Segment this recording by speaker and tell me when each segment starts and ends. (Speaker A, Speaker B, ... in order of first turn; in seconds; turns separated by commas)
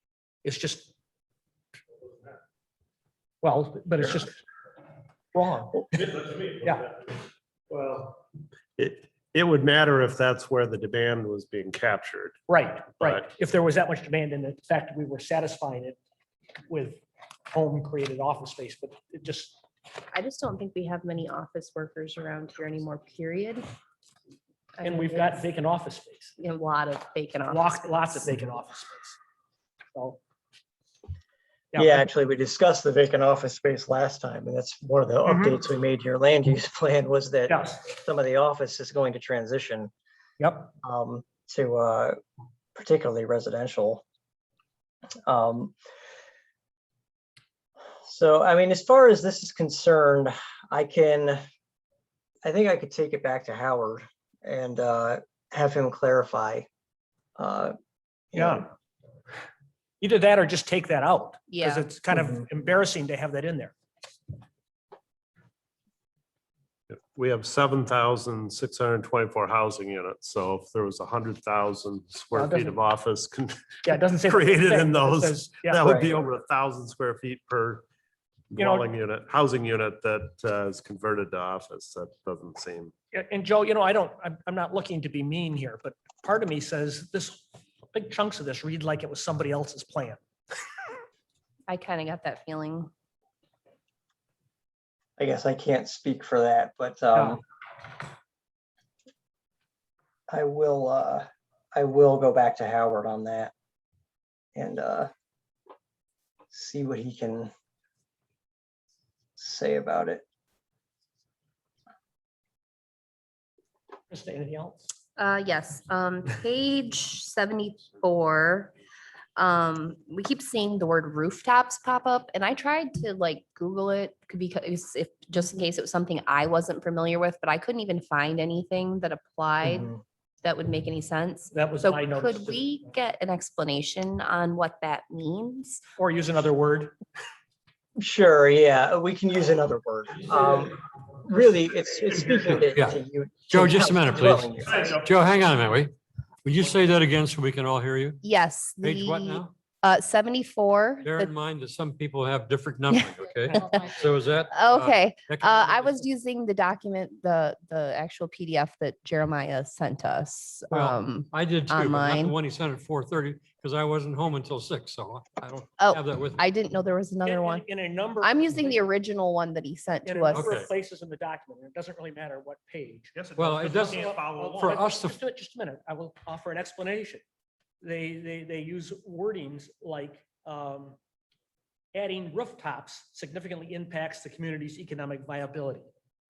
Speaker A: 0.4-0.9, Speaker A: 3.4-4.4, Speaker A: 5.3-6.9, Speaker B: 6.0-6.5, Speaker B: 7.7-8.2, Speaker B: 8.8-12.3, Speaker A: 12.5-16.0, Speaker B: 13.0-13.3, Speaker A: 16.7-19.6, Speaker C: 20.1-23.6, Speaker C: 24.8-25.4, Speaker A: 24.8-26.3, Speaker C: 26.4-28.3, Speaker A: 27.5-29.2, Speaker A: 29.9-30.2, Speaker A: 31.7-32.0, Speaker D: 31.7-39.9, Speaker A: 35.3-35.5, Speaker A: 37.5-37.8, Speaker A: 40.4-40.7, Speaker D: 40.8-42.2, Speaker D: 42.7-44.0, Speaker D: 45.2-45.7, Speaker D: 48.0-51.4, Speaker D: 52.4-56.6, Speaker D: 57.4-57.7, Speaker D: 58.3-58.6, Speaker A: 58.3-58.7, Speaker A: 60.0-63.7, Speaker C: 61.5-61.9, Speaker B: 66.9-77.8, Speaker A: 72.3-72.8, Speaker A: 73.8-76.0, Speaker D: 75.8-76.2, Speaker B: 78.5-82.9, Speaker A: 78.6-78.9, Speaker A: 83.1-90.2, Speaker C: 91.7-92.9, Speaker D: 95.2-97.4, Speaker D: 100.3-103.5, Speaker D: 104.5-105.1, Speaker D: 106.5-107.5, Speaker D: 109.4-110.2, Speaker A: 114.1-114.8, Speaker C: 115.2-118.7, Speaker C: 119.3-135.8, Speaker D: 129.6-130.0, Speaker A: 131.5-132.6, Speaker A: 136.0-136.9, Speaker D: 138.0-145.0, Speaker E: 142.5-143.0, Speaker E: 143.5-148.2, Speaker C: 148.2-151.3, Speaker E: 148.8-149.5, Speaker E: 151.0-155.9, Speaker C: 152.9-153.9, Speaker C: 154.5-162.3, Speaker E: 160.7-166.4, Speaker C: 165.8-167.6, Speaker A: 167.2-168.8, Speaker C: 168.2-170.5, Speaker A: 170.0-177.2, Speaker E: 170.3-170.7, Speaker B: 173.2-174.8, Speaker E: 173.3-175.2, Speaker A: 177.8-180.9, Speaker A: 181.9-185.9